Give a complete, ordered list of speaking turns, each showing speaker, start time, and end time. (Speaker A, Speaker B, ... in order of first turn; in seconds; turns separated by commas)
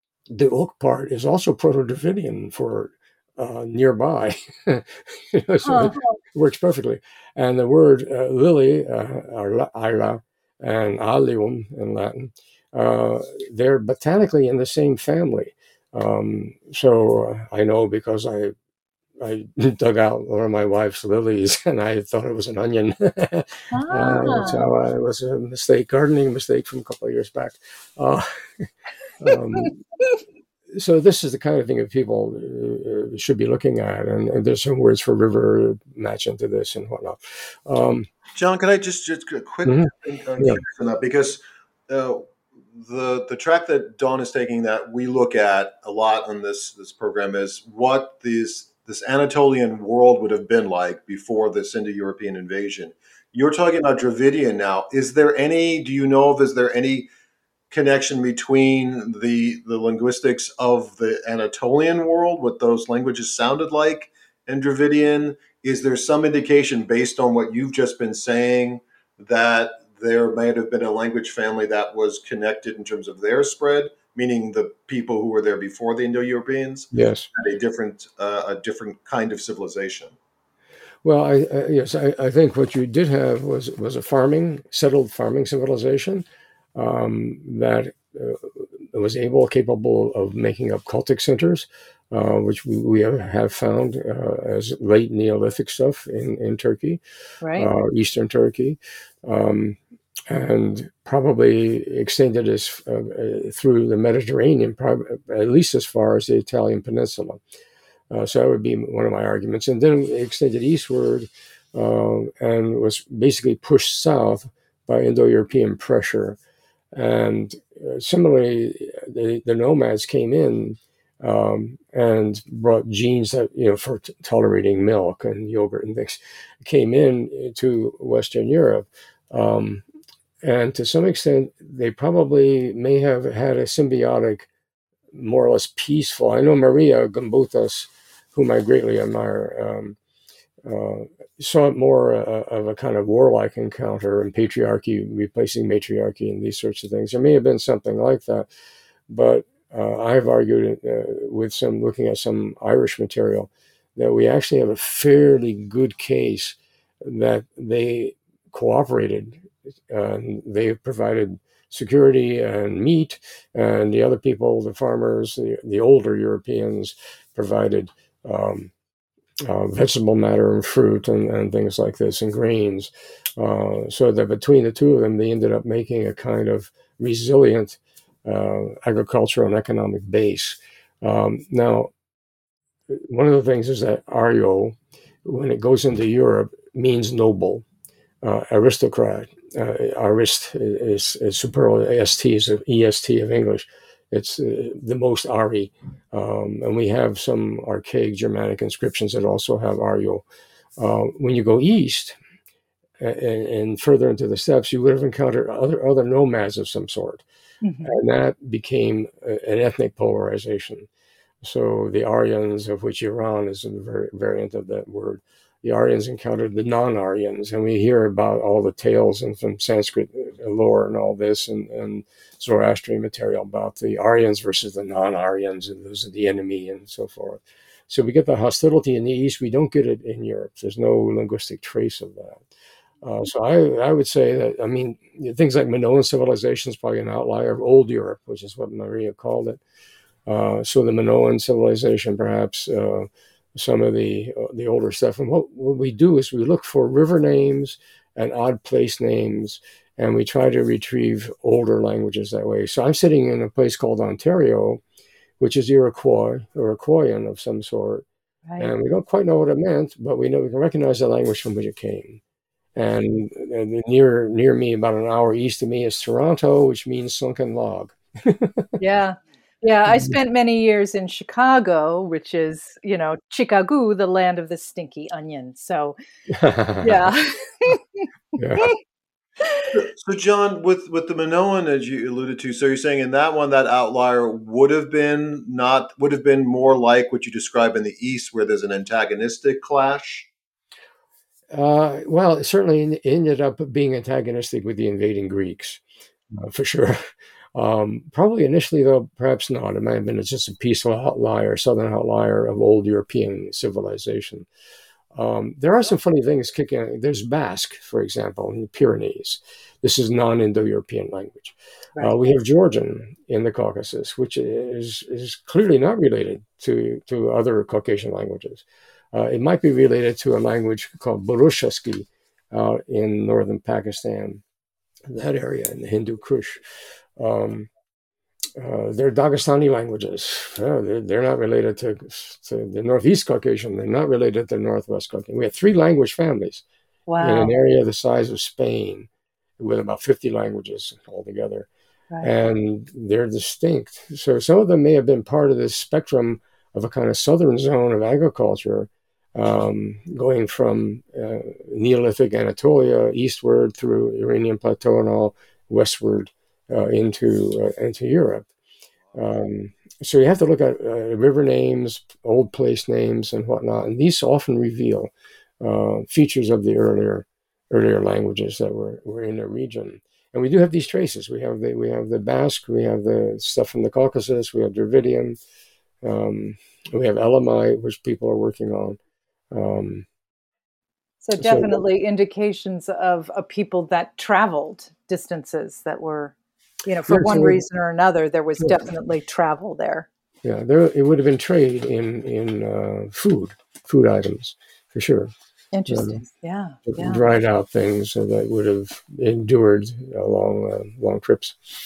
Speaker A: 0.3-18.5, Speaker B: 5.6-6.2, Speaker A: 19.2-28.7, Speaker B: 23.7-24.7, Speaker A: 29.2-29.8, Speaker A: 30.7-38.1, Speaker C: 38.3-57.1, Speaker A: 39.6-40.6, Speaker C: 57.7-80.2, Speaker A: 76.9-77.3, Speaker A: 81.0-97.0, Speaker B: 97.4-97.7, Speaker A: 97.5-99.8, Speaker A: 100.3-107.4, Speaker A: 108.1-116.4, Speaker A: 116.9-129.8, Speaker A: 130.4-134.5, Speaker A: 135.1-140.0, Speaker A: 140.6-148.5, Speaker A: 149.1-168.7, Speaker A: 169.4-181.9, Speaker A: 182.9-187.6, Speaker A: 188.2-200.2, Speaker A: 200.8-202.2, Speaker A: 203.0-207.2, Speaker B: 207.6-207.9, Speaker A: 207.8-210.9, Speaker A: 211.4-232.4, Speaker A: 233.0-239.6, Speaker A: 240.2-254.8, Speaker A: 255.4-258.0, Speaker A: 258.6-262.2, Speaker A: 262.7-268.7, Speaker B: 268.8-275.9, Speaker A: 269.9-270.1, Speaker A: 276.3-277.1, Speaker B: 276.8-278.0, Speaker A: 278.4-278.7, Speaker C: 279.7-290.3, Speaker A: 291.5-304.5, Speaker A: 305.1-324.4, Speaker A: 325.1-326.6, Speaker A: 327.2-327.7, Speaker A: 328.6-336.6, Speaker B: 337.1-337.5, Speaker A: 337.2-339.1, Speaker A: 339.6-341.7, Speaker A: 342.2-358.5, Speaker A: 359.1-375.4, Speaker A: 376.0-379.0, Speaker A: 379.5-380.1, Speaker B: 381.2-386.3, Speaker A: 381.4-381.7, Speaker B: 386.9-390.1, Speaker A: 387.1-387.6, Speaker A: 390.4-395.3, Speaker B: 395.7-397.2, Speaker A: 395.9-396.2, Speaker A: 396.9-401.6